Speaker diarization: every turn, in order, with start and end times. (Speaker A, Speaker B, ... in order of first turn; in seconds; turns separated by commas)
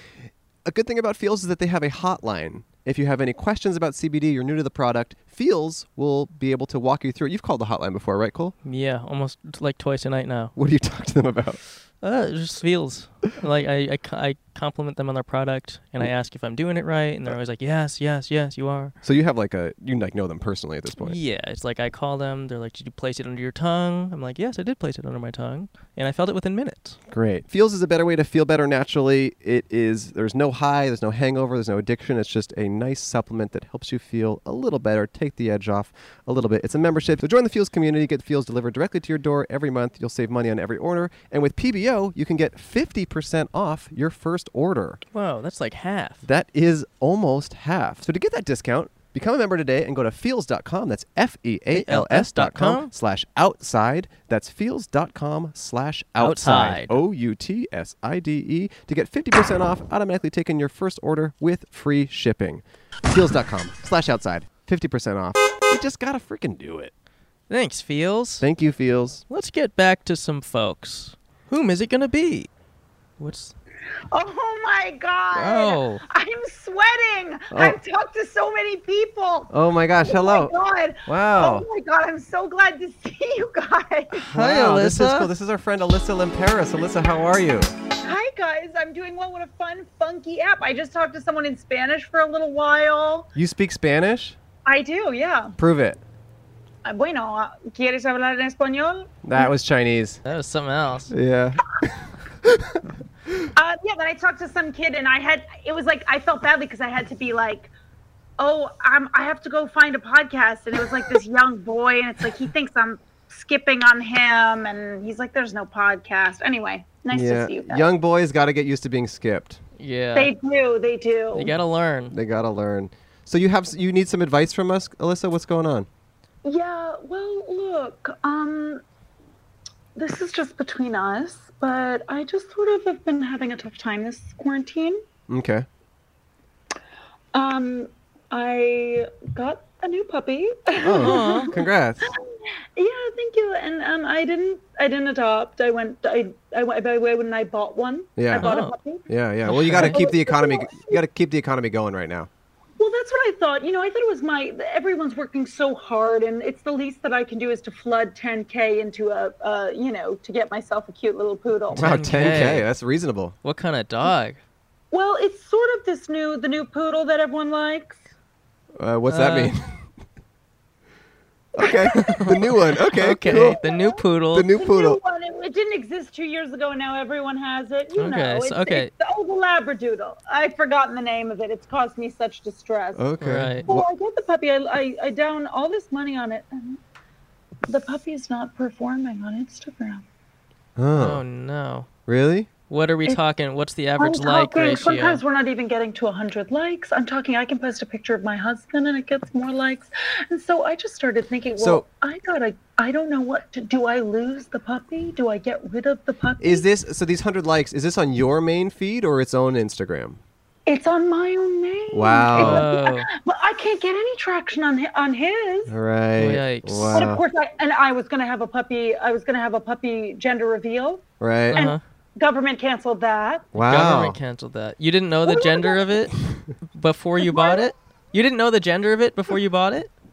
Speaker A: 0.7-8.6, Speaker B: 8.6-10.6, Speaker A: 10.6-11.6, Speaker B: 12.0-18.9, Speaker A: 19.0-21.2, Speaker B: 21.0-27.0, Speaker A: 27.1-45.0, Speaker B: 45.1-46.2, Speaker A: 46.2-66.9, Speaker B: 51.7-52.9, Speaker B: 56.2-57.0, Speaker B: 67.5-68.5, Speaker A: 68.4-69.2, Speaker B: 69.3-72.5, Speaker B: 73.2-73.5, Speaker C: 74.1-79.5, Speaker B: 75.3-76.0, Speaker A: 77.5-77.8, Speaker A: 79.5-80.5, Speaker C: 80.0-84.2, Speaker A: 81.1-81.7, Speaker A: 84.1-87.8, Speaker B: 84.3-85.3, Speaker C: 88.0-93.3, Speaker A: 93.3-94.4, Speaker C: 94.7-95.6, Speaker A: 95.6-96.0, Speaker C: 96.8-99.5, Speaker A: 99.2-100.2, Speaker B: 100.2-101.1, Speaker A: 101.1-103.4, Speaker C: 103.6-107.7, Speaker C: 108.4-117.8, Speaker A: 117.1-119.6, Speaker B: 119.8-120.3, Speaker C: 120.2-121.5, Speaker B: 121.3-122.2, Speaker A: 122.1-125.9, Speaker C: 126.4-128.8, Speaker C: 130.0-135.0, Speaker A: 135.3-135.7, Speaker C: 137.3-149.1, Speaker A: 140.8-142.1, Speaker B: 141.0-141.5, Speaker A: 148.2-148.5, Speaker B: 148.4-148.8, Speaker A: 149.1-152.3, Speaker B: 149.5-150.1, Speaker C: 149.7-151.0, Speaker C: 152.8-161.9, Speaker B: 161.7-162.7, Speaker A: 161.7-163.3, Speaker B: 163.4-164.4, Speaker C: 164.9-168.0, Speaker A: 168.8-169.8, Speaker B: 169.1-169.5, Speaker A: 171.6-173.6, Speaker C: 171.6-172.2, Speaker B: 172.0-174.5, Speaker C: 173.4-183.0, Speaker A: 174.3-175.0, Speaker B: 178.0-178.9, Speaker A: 183.0-183.9, Speaker B: 183.2-183.7, Speaker C: 183.7-186.8, Speaker C: 187.7-190.0, Speaker A: 190.8-191.2, Speaker B: 190.9-191.9, Speaker A: 192.1-192.5, Speaker B: 192.7-195.2, Speaker C: 194.0-206.7, Speaker A: 201.6-201.8, Speaker A: 206.4-210.2, Speaker C: 210.7-215.7, Speaker A: 211.9-212.7, Speaker B: 212.3-213.1, Speaker A: 215.7-217.2, Speaker B: 216.2-217.1, Speaker C: 216.9-223.5, Speaker A: 221.2-221.6, Speaker B: 221.5-221.8, Speaker A: 223.5-224.2, Speaker B: 223.6-226.2, Speaker C: 225.3-225.9, Speaker B: 226.7-229.9, Speaker C: 227.2-227.7